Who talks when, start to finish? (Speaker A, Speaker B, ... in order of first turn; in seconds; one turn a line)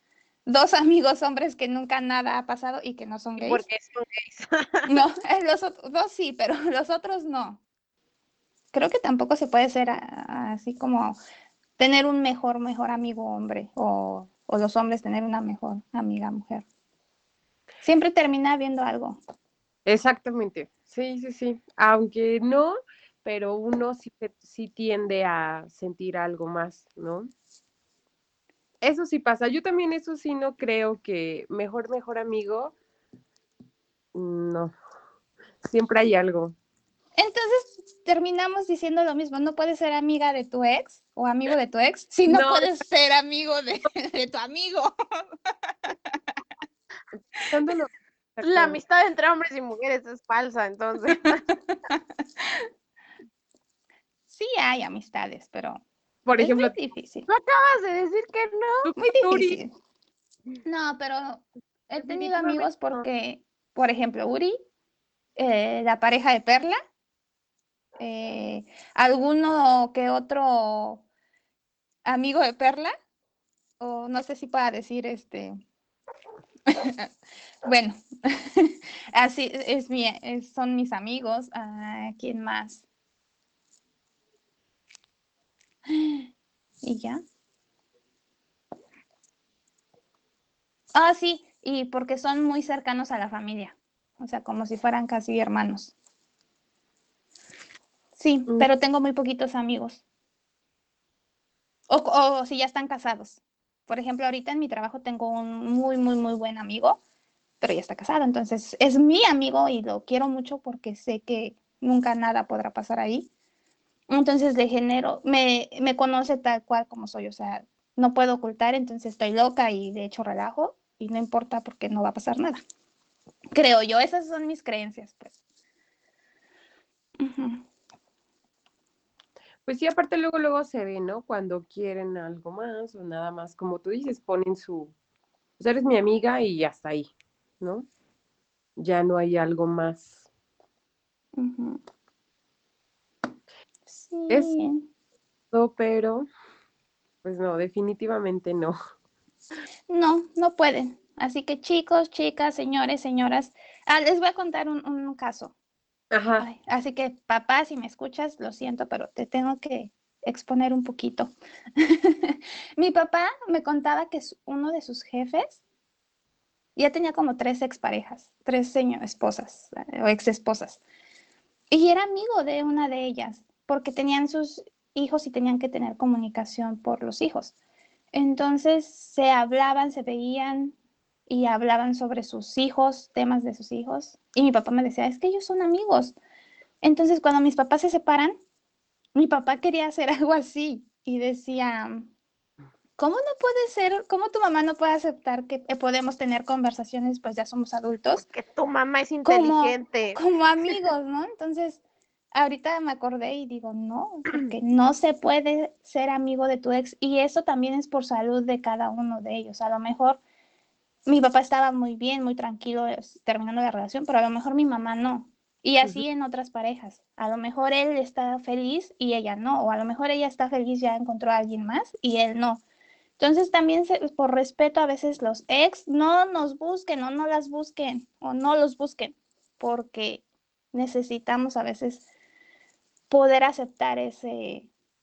Speaker A: 0.5-3.6
Speaker B: 3.4-4.9
Speaker A: 4.9-7.6
Speaker A: 8.7-11.2
Speaker A: 11.8-16.6
Speaker A: 17.8-19.2
Speaker C: 19.9-27.3
Speaker C: 28.8-32.7
Speaker C: 34.1-34.7
Speaker C: 35.6-36.5
Speaker A: 37.2-46.2
Speaker C: 42.2-42.7
Speaker C: 47.4-48.8
Speaker B: 48.4-51.5
Speaker A: 54.3-55.8
Speaker C: 56.2-56.8
Speaker A: 56.4-57.3
Speaker B: 57.3-58.9
Speaker C: 58.8-59.6
Speaker A: 59.0-59.7
Speaker A: 60.6-64.6
Speaker C: 62.1-63.1
Speaker A: 65.4-66.8
Speaker A: 68.0-71.0
Speaker A: 72.0-72.9
Speaker A: 73.8-75.6
Speaker A: 76.7-77.1
Speaker A: 77.6-82.8
Speaker A: 85.9-86.3
Speaker A: 86.8-87.2
Speaker A: 90.9-95.9
Speaker A: 98.2-100.0
Speaker A: 101.9-107.0
Speaker A: 107.6-113.3
Speaker A: 114.1-122.6
Speaker A: 123.5-125.3
Speaker A: 127.2-127.6
Speaker C: 129.7-134.9
Speaker C: 135.6-137.9
Speaker C: 138.8-140.2
Speaker A: 141.4-141.8
Speaker A: 143.9-144.9
Speaker C: 145.5-146.2
Speaker C: 147.2-148.8
Speaker A: 149.9-155.5
Speaker C: 156.1-156.4
Speaker A: 156.4-165.6
Speaker A: 166.8-170.8
Speaker A: 171.7-177.5
Speaker A: 178.1-180.7
Speaker A: 181.3-186.2
Speaker A: 186.8-188.4
Speaker A: 189.1-192.1
Speaker A: 193.0-198.2
Speaker B: 198.1-200.2
Speaker A: 199.2-201.8
Speaker A: 202.3-210.2
Speaker A: 211.1-222.6
Speaker A: 223.2-232.1
Speaker A: 233.1-234.7